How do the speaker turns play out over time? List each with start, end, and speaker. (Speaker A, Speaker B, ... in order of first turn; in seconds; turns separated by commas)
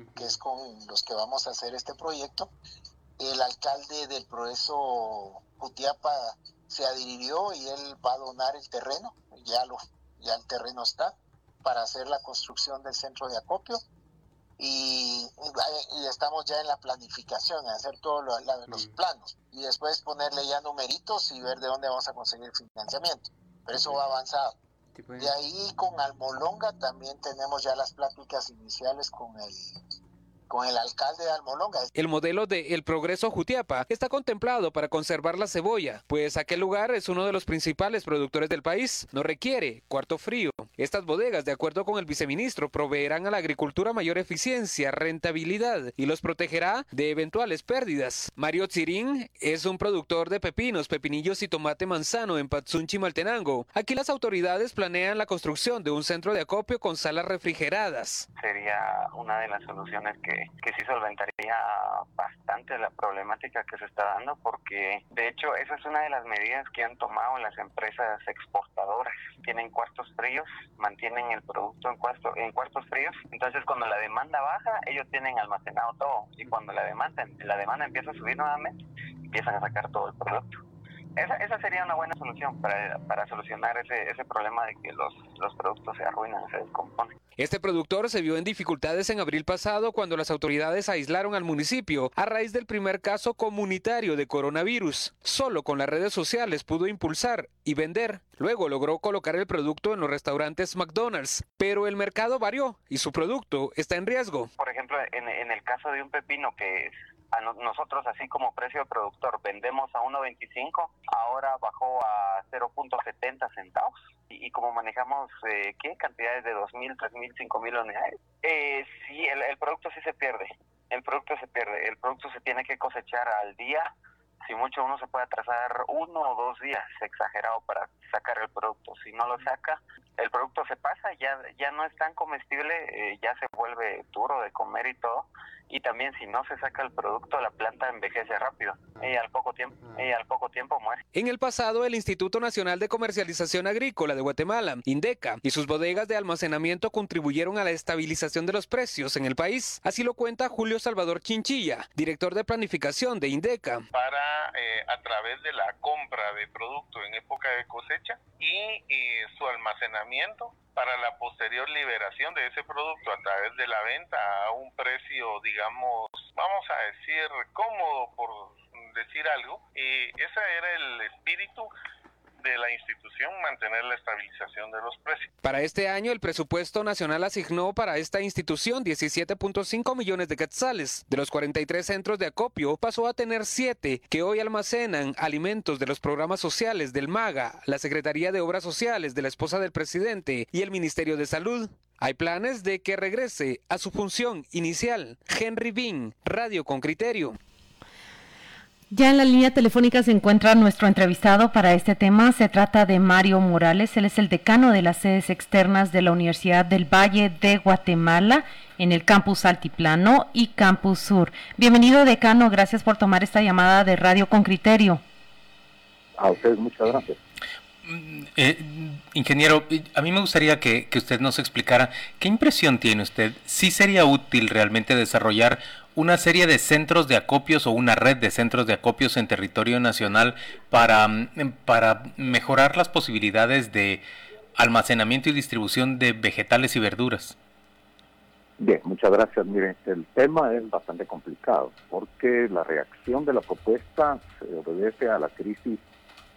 Speaker A: 0.1-2.5, Speaker A: 3.2-13.8, Speaker A: 14.6-24.6, Speaker A: 25.1-29.6, Speaker A: 30.5-31.9, Speaker B: 31.9-58.3, Speaker C: 58.4-80.6, Speaker C: 81.2-87.2, Speaker B: 87.4-104.5, Speaker C: 104.6-123.9, Speaker C: 124.4-141.0, Speaker B: 141.1-153.8, Speaker D: 153.9-171.7, Speaker D: 172.4-175.3, Speaker B: 175.4-197.4, Speaker E: 198.9-215.0, Speaker F: 216.2-217.2, Speaker G: 217.9-234.0, Speaker G: 234.6-237.3, Speaker F: 238.6-245.8